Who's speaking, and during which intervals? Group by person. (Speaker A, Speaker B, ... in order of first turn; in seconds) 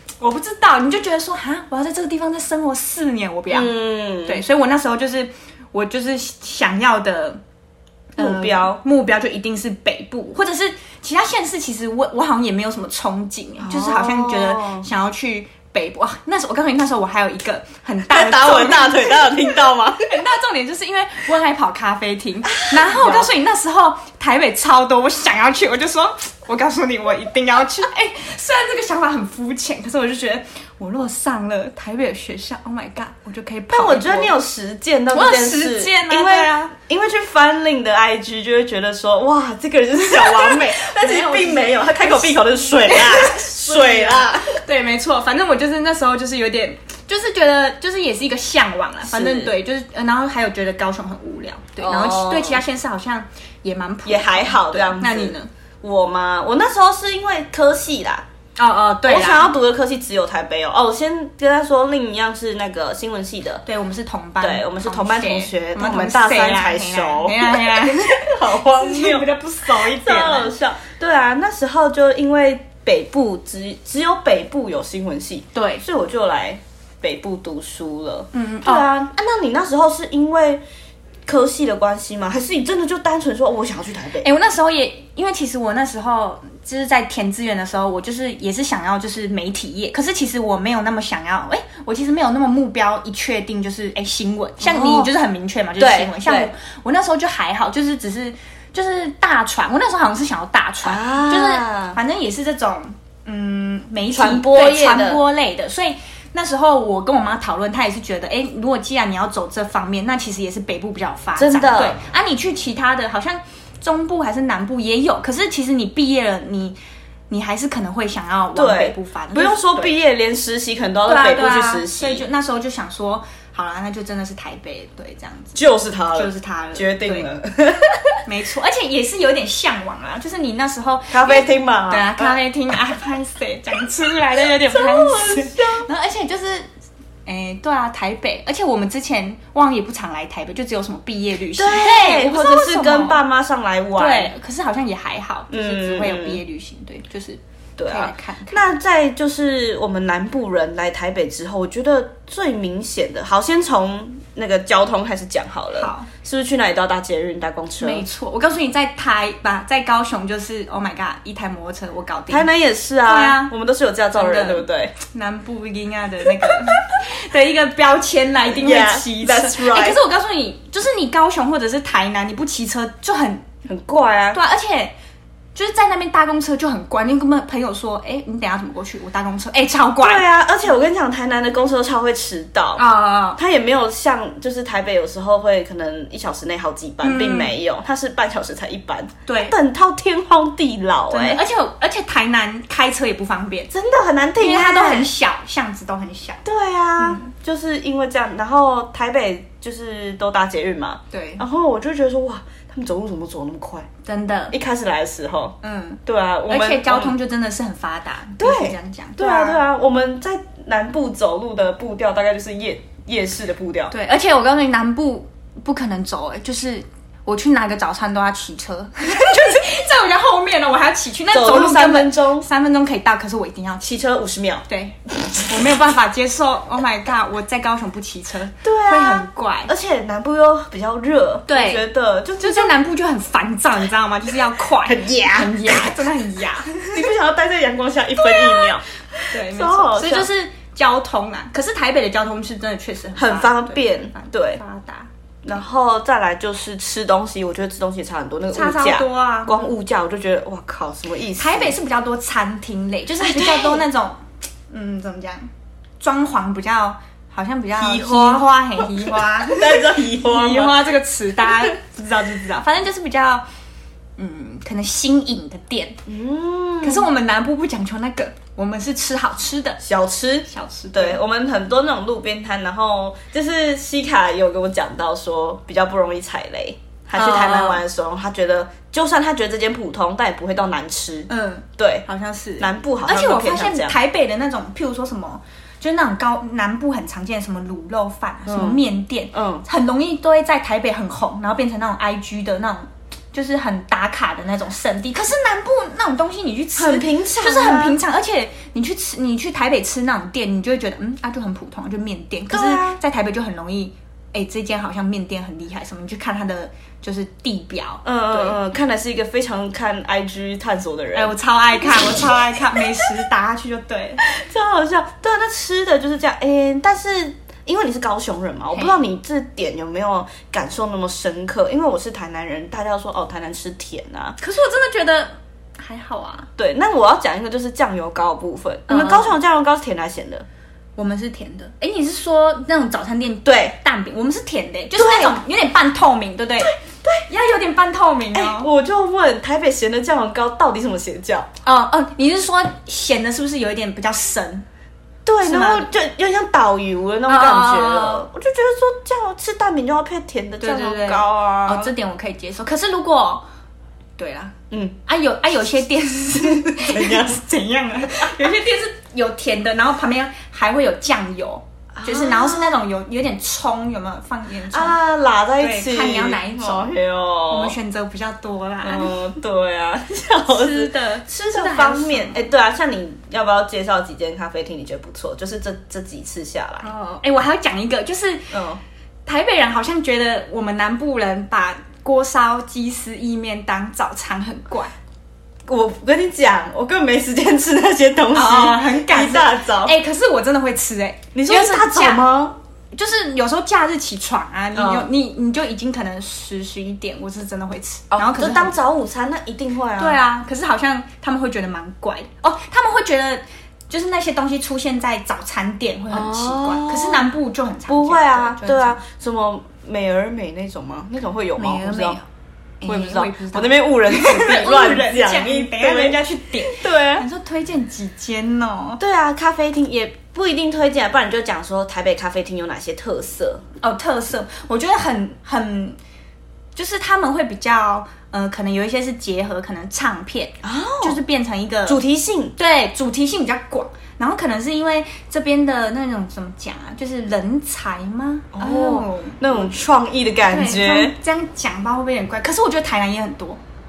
Speaker A: 0.2-3.7, 4.2-7.4, 8.2-19.4, 20.1-34.4, 35.1-36.7, 40.0-55.5, 58.6-59.5, 63.6-70.5, 75.5-75.8, 78.3-78.9, 84.2-116.8, 117.3-119.9, 121.0-125.6, 126.1-127.3, 128.2-136.7, 137.2-143.2, 143.9-148.6, 155.8-156.1, 157.8-162.5, 163.1-163.5, 164.1-173.4, 174.3-174.9, 175.5-180.2, 182.8-183.4, 187.0-187.5, 189.3-189.5, 191.1-193.7, 194.4-196.4, 197.0-197.3, 201.1-201.4, 204.0-204.5, 205.6-209.6, 213.9-223.9, 224.7-229.7, 231.5-231.8, 232.4-236.9, 238.2-238.8, 239.3-245.1, 248.5-249.7, 251.4-255.5, 256.0-263.4, 264.2-266.0, 266.8-269.8, 270.5-271.2, 277.1-277.8, 281.3-308.6, 311.1-314.2, 324.4-326.5, 328.9-329.4, 330.9-336.7, 337.3-338.7, 341.6-344.7, 345.4-345.9, 347.3-348.2, 350.6-353.4, 354.2-354.5, 355.1-365.0, 365.6-366.9, 367.5-369.3, 370.5-372.4, 376.8-378.5, 379.2-384.9, 388.3-392.3, 392.9-398.7, 400.0-409.0, 411.6-412.2, 412.8-419.0, 423.8-426.0, 426.8-432.0, 432.6-439.4, 440.4-443.6
Speaker B: 3.5-4.4, 8.2-8.8, 13.6-14.9, 18.1-20.1, 22.4-23.3, 33.7-44.6, 49.0-49.5, 51.8-52.6, 54.0-58.2, 59.0-63.6, 64.4-80.6, 81.3-84.3, 94.6-95.1, 95.8-96.5, 100.8-102.0, 104.1-105.2, 111.3-112.0, 118.5-122.3, 125.5-128.2, 131.1-132.4, 134.7-135.9, 141.6-144.3, 145.5-146.4, 147.8-158.1, 162.3-164.9, 168.5-170.0, 173.7-174.4, 180.0-182.8, 183.3-191.4, 193.7-195.1, 196.4-203.9, 204.5-207.1, 208.4-213.9, 221.3-222.5, 223.8-224.7, 228.6-232.8, 234.8-236.0, 236.7-240.3, 243.1-244.6, 245.4-251.7, 253.2-253.9, 257.7-260.9, 266.1-267.1, 269.8-282.1, 282.6-283.9, 288.4-288.8, 289.3-289.6, 296.8-298.0, 302.5-303.0, 308.0-313.1, 314.2-324.4, 326.6-330.4, 333.4-333.7, 334.9-335.4, 336.6-337.2, 338.3-341.5, 345.2-351.9, 354.7-354.9, 356.4-357.4, 361.9-362.8, 364.7-367.8, 368.8-376.9, 378.5-378.8, 385.7-389.9, 391.3-392.6, 394.7-395.1, 398.1-400.2, 406.1-407.3, 407.9-412.2, 412.8-417.2, 419.0-423.6, 430.6-431.2, 431.9-432.6, 438.5-441.1